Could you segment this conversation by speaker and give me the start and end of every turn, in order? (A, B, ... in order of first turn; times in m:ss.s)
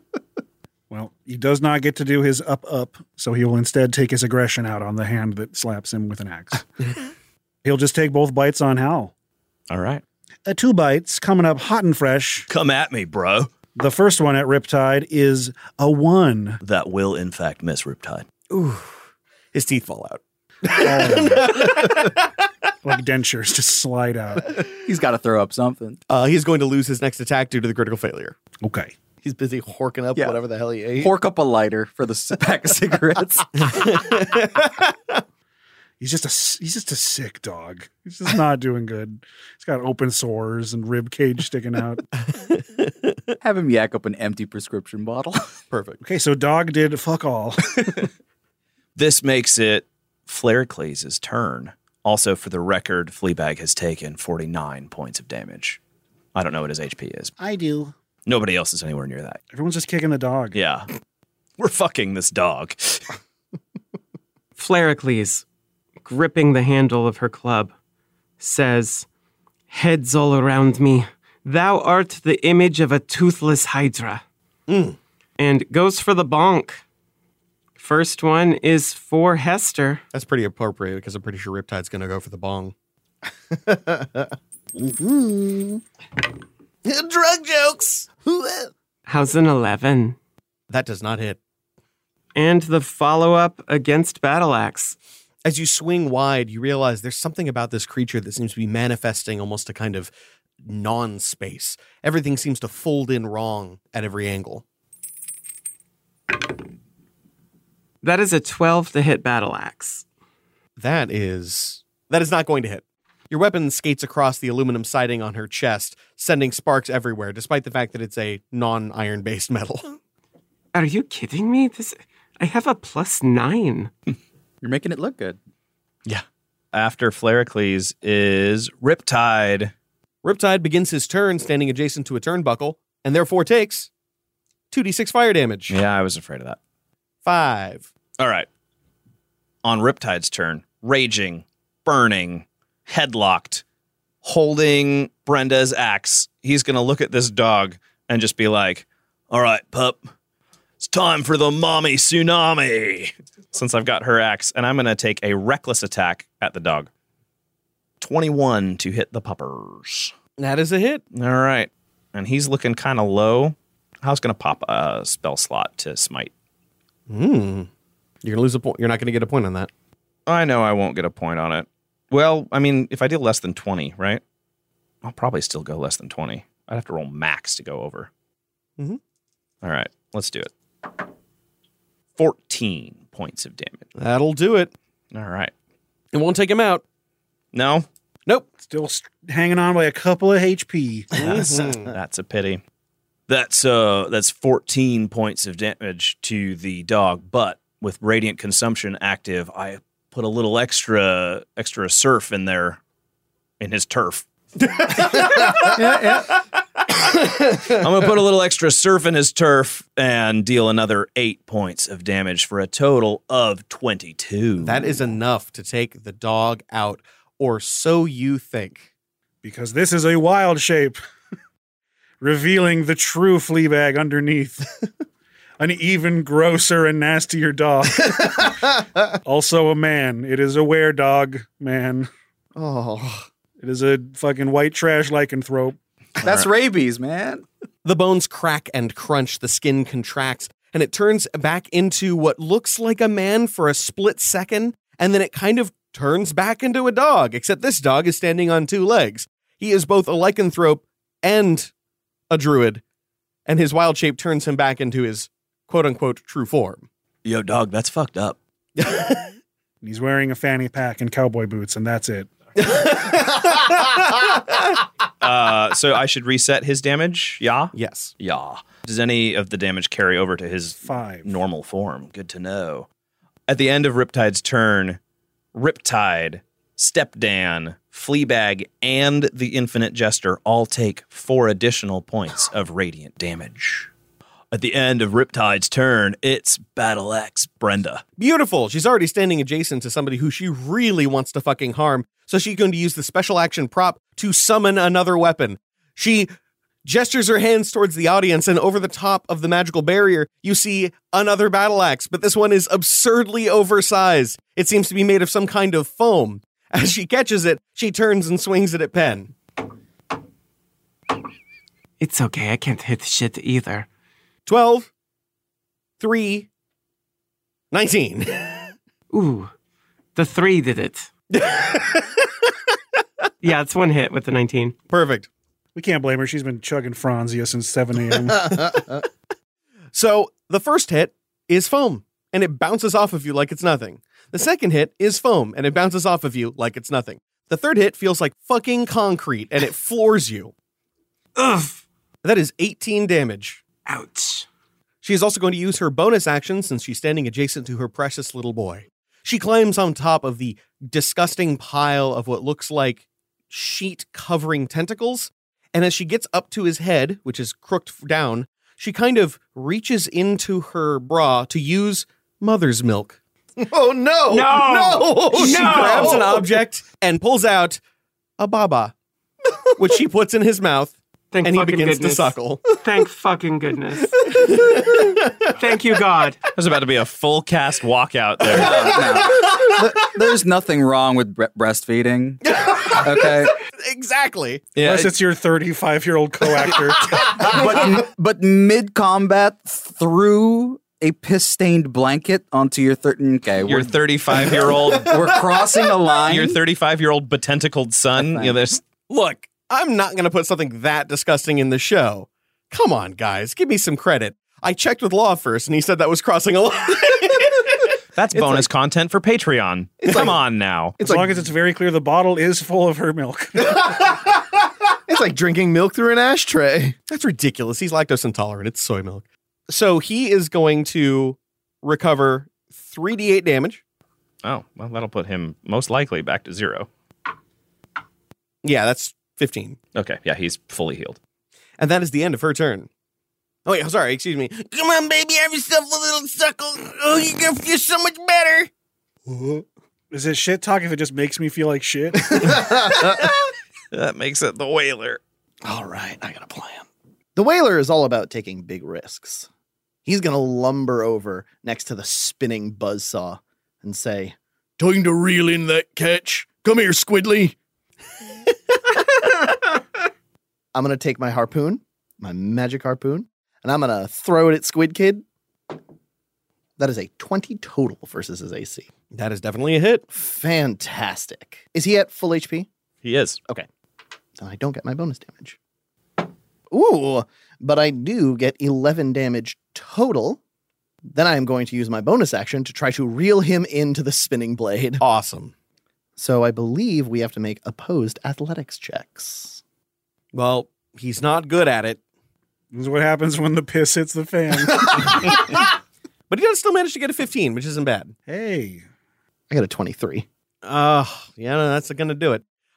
0:00.9-0:06.6 A
0:07.6-0:09.1 A
0:09.7-0:10.0 B
0:10.4-0:12.5 A
0:12.5-0:13.5 B
0:13.8-0:16.6 A
0:16.6-0:18.3 B
0:18.5-0:19.0 C
0:19.5-0:22.2 C
0:20.7-0:21.9 A
0:22.8-0:24.6 A
0:24.8-0:26.0 D
0:26.1-0:28.4 C
0:28.6-0:28.9 A
0:29.2-0:31.1 E
0:31.0-0:33.8 D
0:33.7-0:34.7 C
0:36.0-0:42.0 A
0:43.4-0:45.5 D
0:45.7-0:46.0 C
0:46.0-0:48.0 A
0:49.0-0:55.8 B
0:56.3-0:57.3 B
0:57.4-0:57.9 A
0:58.2-0:59.4 B
0:59.5-1:00.6 A
1:00.5-1:00.9 B
1:01.6-1:03.1 B
1:04.6-1:05.4 F
1:06.0-1:07.7 F
1:08.4-1:09.1 F
1:09.7-1:14.2 F
1:14.7-1:15.0 C
1:15.4-1:16.8 F
1:17.8-1:20.0 F
1:20.1-1:22.7 C
1:23.5-1:24.2 E
1:24.8-1:25.8 E
1:26.9-1:28.7 E
1:29.0-1:30.2 F
1:30.7-1:31.4 C
1:32.4-1:35.0 F
1:35.4-1:40.1 C
1:40.6-1:44.6 C
1:48.0-1:50.0 F
1:50.8-2:00.0 C
2:00.7-2:03.9 F
2:04.6-2:05.4 D
2:06.0-2:09.7 B
2:10.2-2:13.9 C
2:14.7-2:15.8 C
2:15.7-2:16.6 B
2:17.2-2:17.9 C
2:18.2-2:18.5 B
2:19.6-2:23.6 B
2:24.2-2:30.0 B
2:30.8-2:36.9 B
2:38.0-2:40.1 B
2:40.4-2:41.0 C
2:41.1-2:46.3 B
2:47.1-2:47.7 C
2:48.2-2:49.7 C
2:50.3-2:54.2 B
2:55.0-2:58.1 B
2:59.6-3:00.5 B
3:02.2-3:03.9 B
3:04.0-3:04.7 C
3:05.1-3:05.5 B
3:06.1-3:06.8 C
3:07.5-3:07.9 B
3:08.6-3:11.2 A
3:11.2-3:11.9 C
3:11.2-3:12.6 B
3:13.3-3:22.8 B
3:23.6-3:24.2 B
3:25.8-3:26.2 D
3:27.6-3:35.0 B
3:34.6-3:38.8 C
3:39.4-3:41.0 A
3:42.2-3:44.7 A
3:45.6-3:48.5 A
3:49.2-3:52.1 A
3:52.5-3:53.3 E
3:53.6-3:55.8 A
3:56.2-3:57.4 D
3:56.2-3:56.5 B
3:57.8-4:11.7 C
4:12.3-4:12.8 C
4:13.4-4:16.8 C
4:17.2-4:18.4 B
4:18.8-4:19.3 C
4:19.8-4:22.3 A
4:22.6-4:24.2 C
4:25.2-4:32.9 B
4:27.7-4:28.1 C
4:30.8-4:31.3 A
4:33.5-4:35.0 B
4:35.5-4:43.9 B
4:44.5-4:48.0 B
4:48.2-4:56.3 C
4:56.8-5:09.3 C
5:12.0-5:13.9 F
5:14.4-5:14.9 C
5:16.0-5:16.5 C
5:17.7-5:18.7 C
5:19.1-5:19.5 F
5:20.1-5:21.1 F
5:21.3-5:22.2 C
5:23.4-5:24.8 F
5:24.9-5:25.3 C
5:25.7-5:28.8 A
5:28.7-5:29.0 E
5:29.9-5:40.5 C
5:41.4-5:41.8 F
5:42.2-5:43.6 C
5:43.8-5:44.4 F
5:45.0-6:03.2 C
6:03.6-6:06.4 E
6:04.3-6:06.5 F
6:05.3-6:07.8 C
6:08.4-6:08.9 C
6:09.8-6:12.6 C
6:11.3-6:16.4 F
6:16.5-6:19.2 B
6:18.4-6:23.5 D
6:22.4-6:24.7 C
6:24.8-6:25.1 B
6:24.8-6:27.5 A
6:27.4-6:36.6 D
6:33.6-6:35.3 B
6:36.3-6:38.8 B
6:38.2-6:38.6 D
6:39.1-6:47.7 C
6:48.2-6:51.0 B
6:48.3-6:48.7 C
6:50.0-6:50.4 C
6:51.0-6:53.8 A
6:53.8-6:54.2 E
6:55.1-6:57.0 E
6:57.1-7:03.8 C
7:04.4-7:06.9 B
7:08.6-7:09.8 C
7:09.9-7:11.2 B
7:11.8-7:12.9 C
7:13.6-7:14.7 C
7:14.6-7:18.7 G
7:19.3-7:23.0 A
7:22.5-7:23.1 E
7:23.9-7:25.2 B
7:25.6-7:29.5 E
7:30.0-7:37.5 E
7:40.7-7:45.2 E
7:46.8-7:48.9 E
7:49.1-7:50.0 C
7:50.1-7:52.7 E
7:53.0-7:53.4 B
7:54.4-7:55.6 E
7:56.7-8:00.4 E
8:01.1-8:05.0 E
8:05.0-8:05.5 C
8:06.2-8:09.6 E
8:10.3-8:12.0 C
8:12.7-8:15.4 A
8:16.3-8:18.1 C
8:18.3-8:18.8 A
8:19.5-8:20.2 E
8:20.6-8:22.4 C